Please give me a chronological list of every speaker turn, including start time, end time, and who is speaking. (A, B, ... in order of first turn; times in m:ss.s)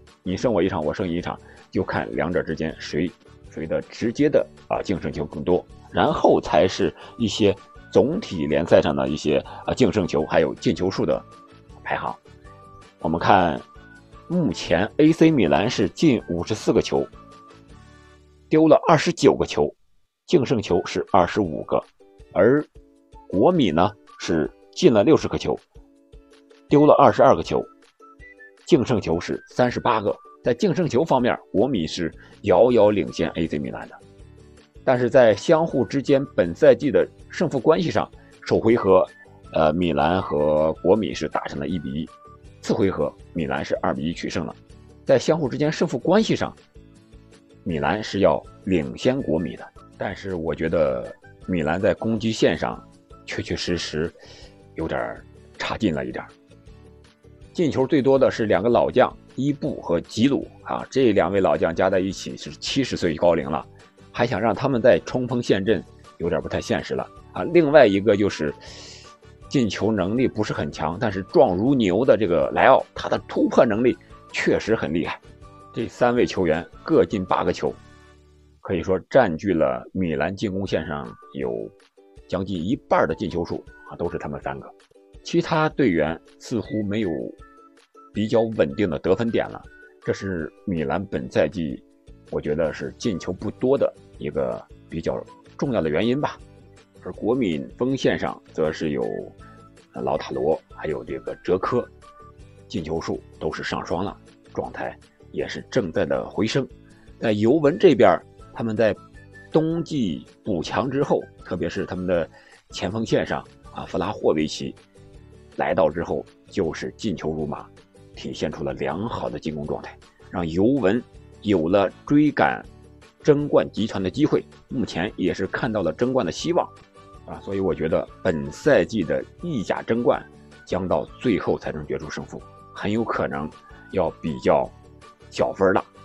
0:00.2-0:11.2 A
0:11.8-0:12.2 A
0:13.0-0:13.6 A
0:14.3-0:17.1 A
0:18.5-0:19.7 A
0:20.2-0:22.7 A
0:23.3-0:25.6 A
0:26.7-0:27.7 A
0:28.6-0:34.0 A
0:34.8-0:46.6 A
0:47.6-0:54.1 A
0:54.8-0:56.3 A
0:57.5-1:08.6 A
1:09.5-1:15.2 A
1:15.7-1:17.8 A
1:18.6-1:21.7 A
1:22.3-1:27.4 A
1:28.1-1:36.4 A
1:37.0-1:39.4 A
1:39.9-1:41.9 A
1:42.7-1:46.7 A
1:47.2-1:49.0 A
1:49.5-1:54.8 A
1:55.6-2:02.7 A
2:03.2-2:06.7 A
2:07.3-2:14.7 A
2:15.3-2:15.9 A